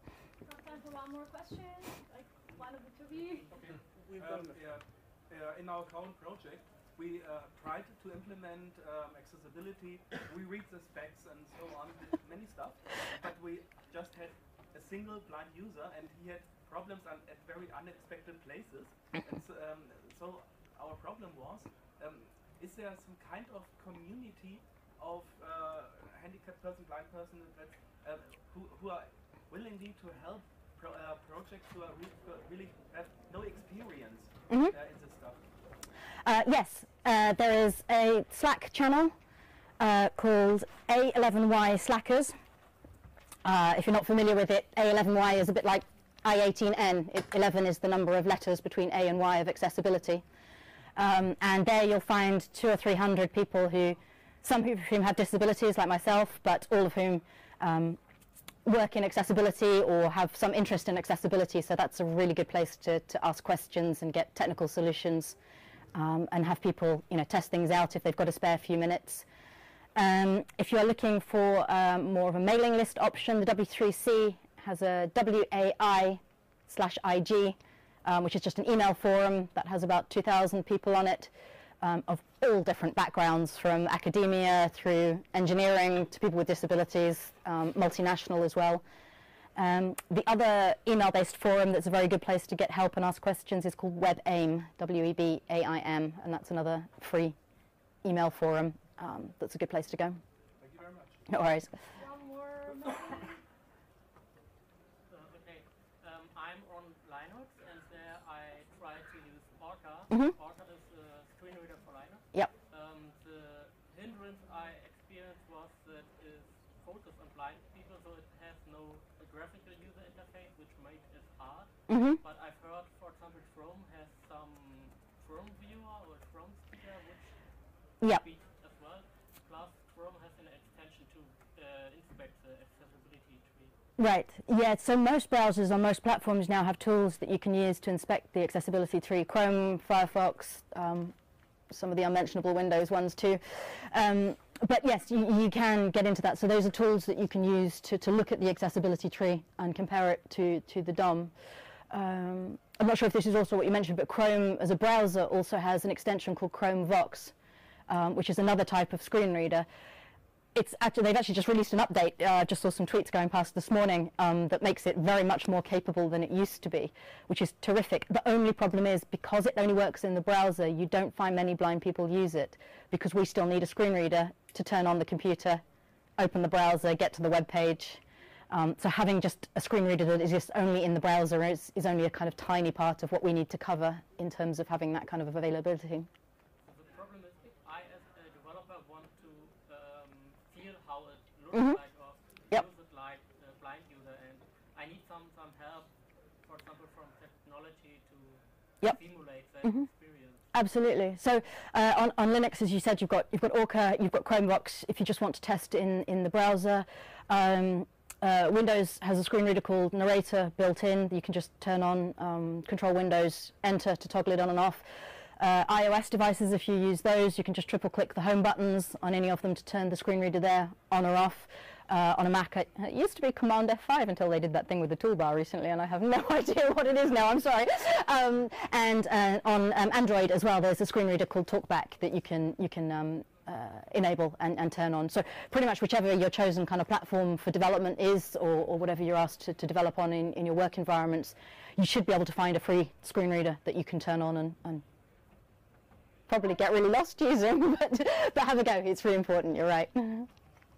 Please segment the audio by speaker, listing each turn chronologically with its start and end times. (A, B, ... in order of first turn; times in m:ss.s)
0:00.4-0:04.1 A
0:03.5-0:35.4 B
0:34.5-0:34.7 C
0:36.2-0:39.1 C
0:39.8-0:42.3 C
0:43.4-0:50.2 C
0:51.0-0:58.0 C
0:58.6-1:05.3 C
1:05.9-1:09.2 C
1:10.0-1:21.3 C
1:21.8-1:28.8 C
1:29.6-1:37.4 C
1:38.0-1:40.2 C
1:40.6-1:41.3 B
1:41.3-1:41.7 C
1:41.9-1:43.4 A
1:45.1-2:07.3 D
2:01.9-2:02.2 C
2:08.0-2:13.7 D
2:14.0-2:21.1 C
2:21.7-2:31.3 C
2:31.9-2:37.3 C
2:37.9-2:39.7 C
2:40.5-2:55.6 C
2:56.2-3:06.1 C
3:06.6-3:20.4 D
3:11.5-3:11.8 C
3:19.6-3:19.9 C
3:20.5-3:34.8 C
3:35.4-4:04.8 C
4:06.3-4:10.3 C